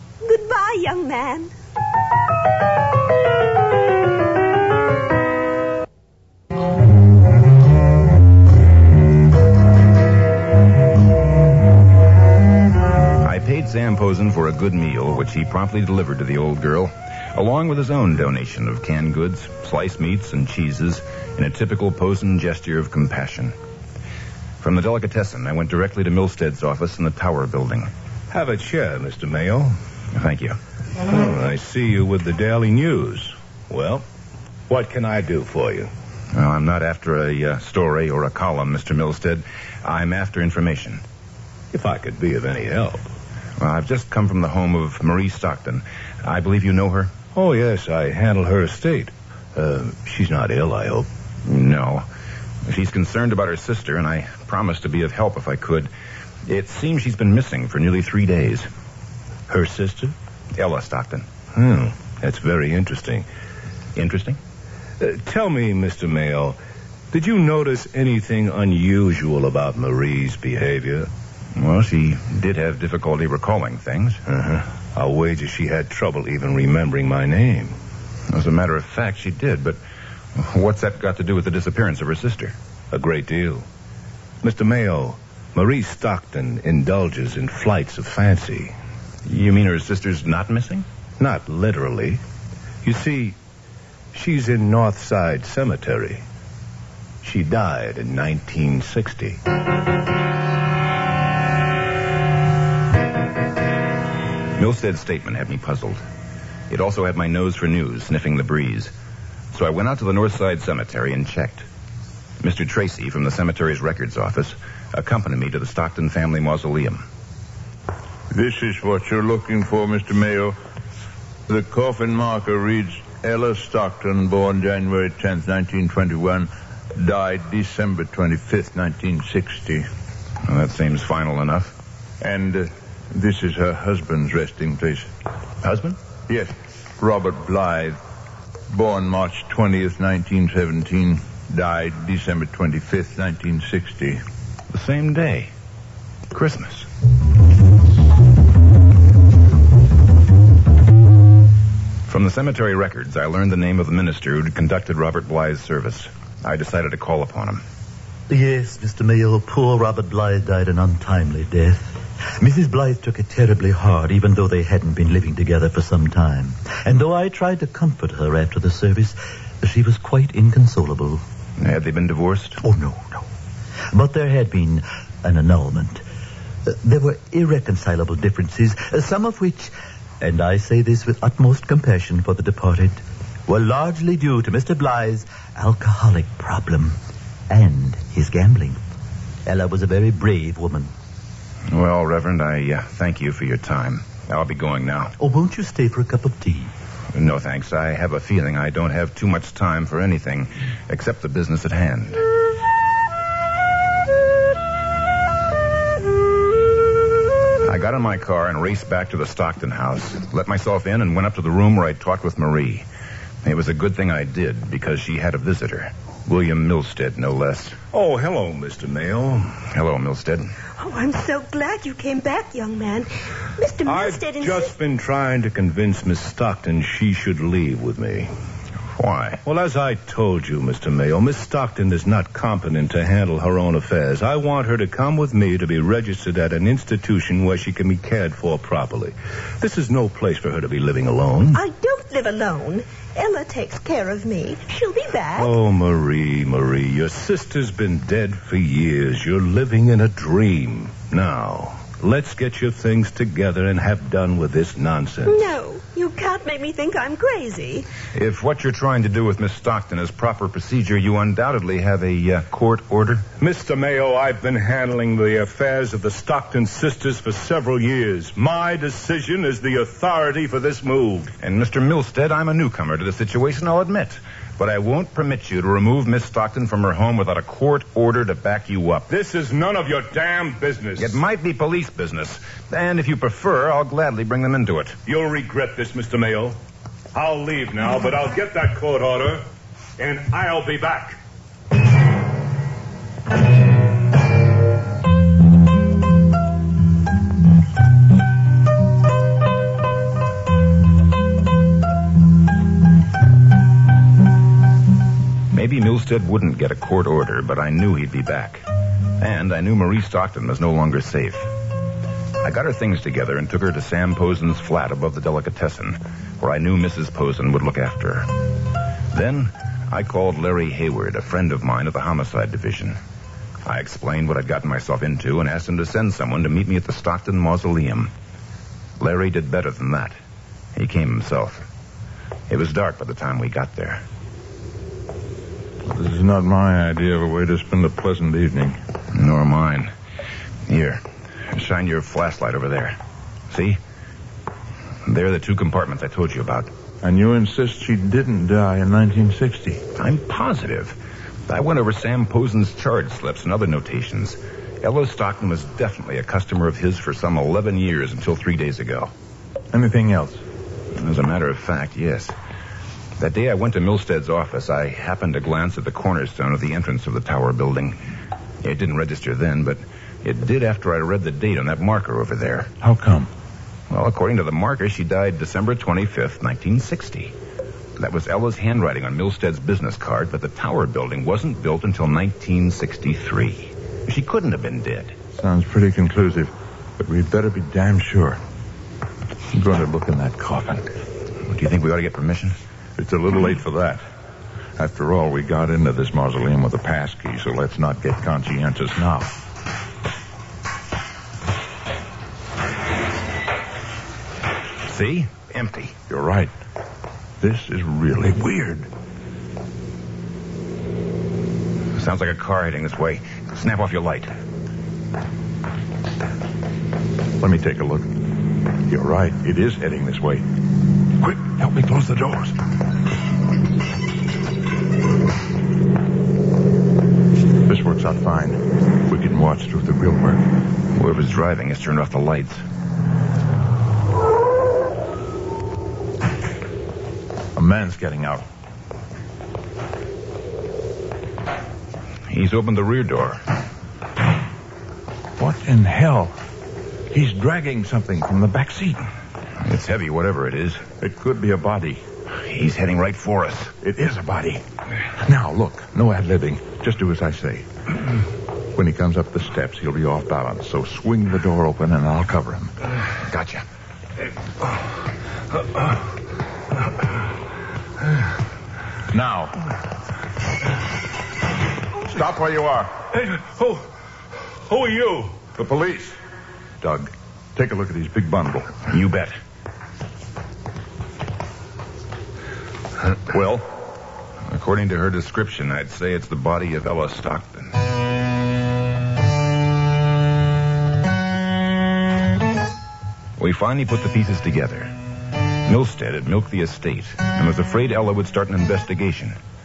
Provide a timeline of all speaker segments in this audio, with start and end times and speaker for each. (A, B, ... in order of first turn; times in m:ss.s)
0:00.2-0:01.5 A
0:13.2-0:23.5 B
0:24.6-0:27.9 B
0:28.3-0:29.7 C
0:30.1-0:30.6 B
0:31.1-0:34.0 C
0:34.7-0:35.9 C
0:36.3-0:41.0 B
0:41.7-0:43.0 C
0:43.6-0:47.1 B
0:47.3-0:51.1 C
0:51.4-0:52.0 B
0:52.7-0:55.9 B
0:56.5-0:58.7 B
0:59.5-1:00.1 C
1:00.5-1:01.2 B
1:01.5-1:03.2 C
1:03.9-1:04.4 B
1:05.0-1:06.6 C
1:07.1-1:11.1 C
1:11.6-1:14.2 B
1:14.3-1:17.8 C
1:18.3-1:19.8 B
1:20.3-1:22.5 B
1:22.9-1:23.6 C
1:24.4-1:28.7 C
1:29.2-1:30.8 B
1:31.2-1:32.2 C
1:32.8-1:33.4 C
1:34.1-1:36.2 C
1:37.2-1:39.4 C
1:44.6-1:46.0 B
1:46.7-1:48.9 B
1:49.5-1:51.7 B
1:52.4-1:57.0 B
1:58.3-2:00.6 D
2:01.5-2:09.9 D
2:10.4-2:11.7 B
2:12.2-2:15.1 D
2:15.6-2:16.0 B
2:16.3-2:18.0 D
2:18.7-2:24.2 D
2:24.7-2:25.5 B
2:26.3-2:26.9 B
2:32.1-2:37.6 B
2:38.3-2:51.2 E
2:51.6-2:52.6 B
2:52.6-2:53.2 E
2:53.9-2:56.0 E
2:56.6-3:07.0 E
3:07.5-3:08.8 E
3:09.4-3:10.9 E
3:11.7-3:15.1 B
3:15.2-3:16.7 E
3:17.1-3:22.2 B
3:27.6-3:32.8 B
3:33.4-3:37.8 B
3:37.9-3:39.6 C
3:39.7-3:40.5 B
3:40.8-3:44.7 A
3:43.8-3:48.3 C
3:48.9-3:49.4 B
3:49.4-4:01.6 C
4:01.5-4:05.5 A
4:05.4-4:15.5 C
4:15.2-4:17.9 A
4:18.1-4:23.2 B
4:23.4-4:31.3 C
4:31.4-4:39.1 B
4:39.1-4:41.2 C
4:41.0-4:45.0 B
4:45.1-4:46.6 C
4:47.1-4:49.4 C
4:50.0-4:51.2 C
5:05.5-5:08.6 B
5:09.2-5:11.5 B
5:12.4-5:18.4 B
5:19.1-5:23.0 B
5:23.6-5:28.1 B
5:29.0-5:30.2 B
5:30.8-5:31.6 B
5:32.5-5:34.0 B
5:35.8-5:38.8 D
5:39.1-5:39.9 B
5:40.7-5:43.0 B
5:43.5-5:43.8 B
5:45.0-5:46.7 B
5:47.0-5:49.8 D
5:50.0-5:51.0 B
5:51.5-5:59.1 B
5:59.7-6:00.4 D
6:00.9-6:02.3 B
6:03.2-6:08.0 B
6:08.6-6:12.7 B
6:12.8-6:13.3 D
6:13.9-6:17.3 B
6:18.0-6:25.1 B
6:25.3-6:28.4 D
6:29.5-6:30.9 D
6:31.5-6:32.6 B
6:33.0-6:34.0 D
6:34.8-6:39.3 D
6:44.8-6:45.9 B
6:46.1-6:46.5 D
6:47.4-6:48.9 D
6:51.9-6:54.3 B
6:57.4-6:58.1 D
6:58.9-7:00.4 D
7:01.2-7:02.6 D
7:07.6-7:10.4 D
7:10.9-7:12.6 B
7:17.5-7:18.4 D
7:22.3-7:23.4 B
7:25.4-7:26.4 D
7:27.1-7:29.1 D
7:29.6-7:30.8 B
7:31.0-7:32.0 D
7:32.4-7:33.7 B
7:33.8-7:34.6 D
7:35.2-7:37.7 D
7:38.7-7:42.7 D
7:43.2-7:43.6 B
7:49.1-7:49.5 D
7:52.0-7:52.9 D
7:53.2-7:53.8 C
7:54.6-7:55.4 C
7:55.5-7:56.2 D
7:56.8-7:58.8 D
7:58.9-7:59.4 B
8:03.2-8:03.7 D
8:04.5-8:07.7 B
8:13.4-8:14.9 B
8:15.6-8:19.4 B